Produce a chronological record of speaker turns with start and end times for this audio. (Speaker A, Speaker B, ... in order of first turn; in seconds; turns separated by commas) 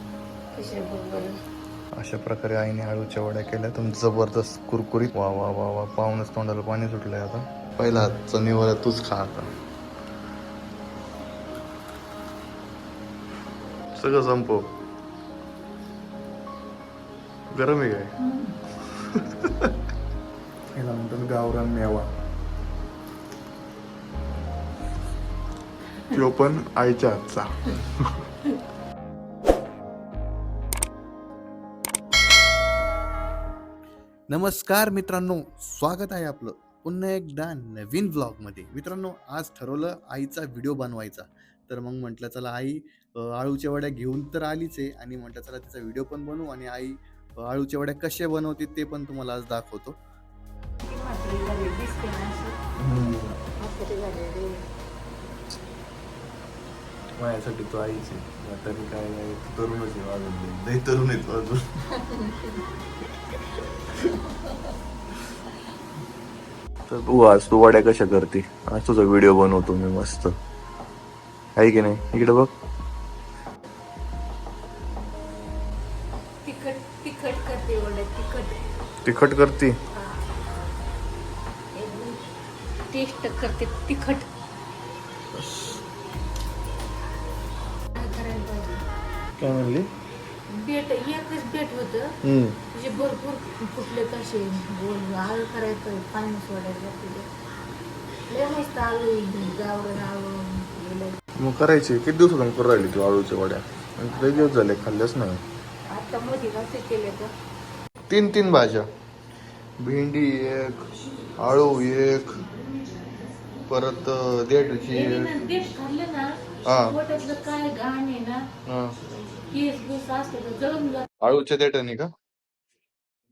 Speaker A: 0.5-1.3, Speaker B: 2.0-9.5, Speaker B: 13.9-14.7, Speaker B: 17.5-18.1, Speaker A: 18.2-18.6, Speaker B: 18.9-19.7, Speaker B: 20.7-22.1, Speaker B: 26.1-28.2, Speaker B: 34.3-50.0, Speaker A: 50.9-52.6, Speaker B: 52.8-53.4, Speaker A: 53.6-54.6, Speaker B: 57.2-61.6, Speaker A: 62.0-62.6, Speaker B: 63.5-64.0, Speaker B: 66.9-70.4, Speaker B: 71.6-72.5, Speaker A: 76.5-78.6, Speaker B: 79.0-79.8, Speaker A: 81.8-82.2, Speaker A: 82.9-84.3, Speaker B: 85.3-85.8, Speaker A: 88.0-88.8, Speaker B: 89.4-89.9, Speaker A: 90.5-92.1, Speaker B: 92.2-92.6, Speaker A: 92.7-97.3, Speaker A: 98.3-101.2, Speaker B: 101.4-105.4, Speaker A: 104.2-104.6, Speaker A: 105.9-107.3, Speaker B: 108.1-108.9, Speaker B: 109.8-110.8, Speaker B: 111.4-112.3, Speaker B: 113.7-115.5, Speaker A: 114.9-118.4, Speaker B: 116.7-117.0, Speaker B: 118.7-118.9, Speaker A: 119.5-121.1, Speaker B: 121.2-122.1